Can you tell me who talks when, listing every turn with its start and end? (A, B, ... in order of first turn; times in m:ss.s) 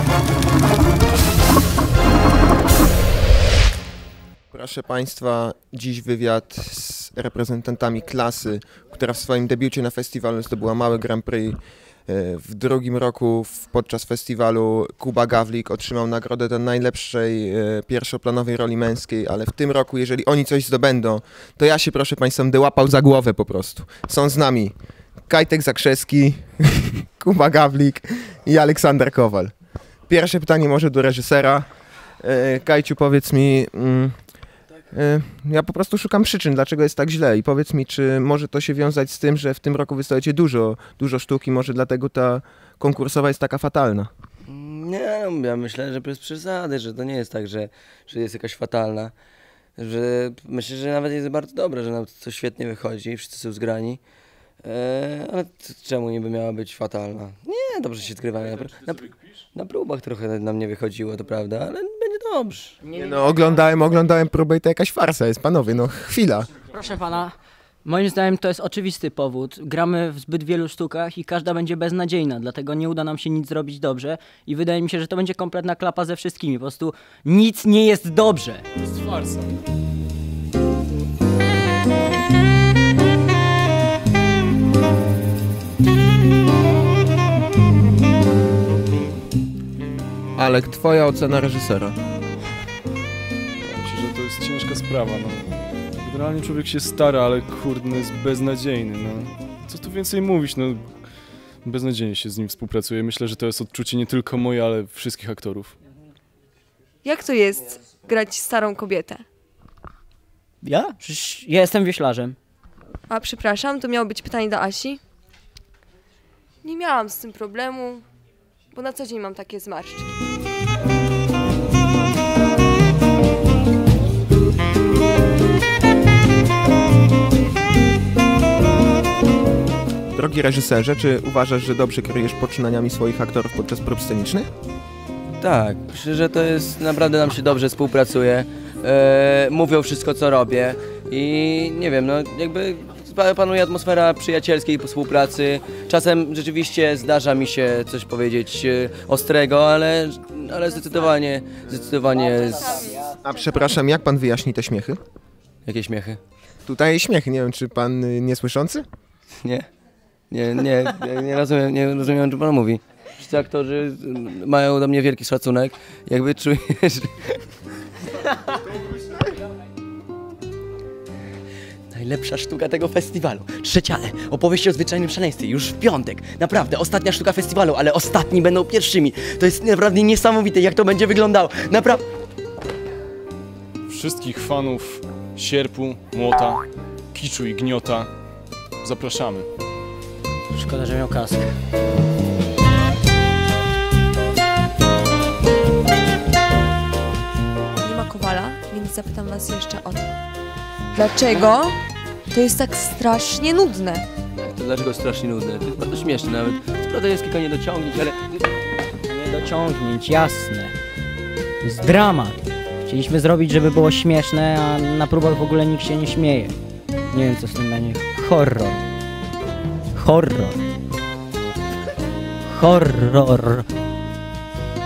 0:04.5-0:24.7 A
0:25.3-0:29.5 A
0:30.1-0:31.7 A
0:32.2-0:34.2 A
0:34.9-0:44.1 A
0:44.5-0:49.1 B
0:49.8-0:54.0 B
0:54.6-1:02.8 B
1:02.9-1:06.5 A
1:06.7-1:18.6 C
1:18.8-1:19.6 D
1:30.4-1:32.0 A
1:33.6-1:40.9 D
1:41.6-1:45.7 D
1:47.0-1:49.2 E
1:50.6-1:52.4 C
1:53.1-1:55.0 E
1:56.6-1:58.0 E
1:58.7-2:00.2 E
2:10.2-2:14.5 A
2:15.4-2:33.1 B
2:32.2-2:33.6 E
2:33.2-2:35.0 A
2:35.7-2:36.2 B
2:36.7-2:38.8 A
2:39.4-2:39.7 B
2:40.3-2:47.4 B
2:51.9-3:02.0 B
3:03.9-3:08.1 D
3:08.8-3:09.5 D
3:10.5-3:11.5 C
3:17.8-3:20.1 E
3:20.9-3:21.8 E
3:22.3-3:24.0 E
3:24.4-3:28.4 B
3:29.1-3:30.8 C
3:31.6-3:36.6 C
3:37.1-3:38.8 C
3:39.9-3:40.6 C
3:42.5-3:43.7 C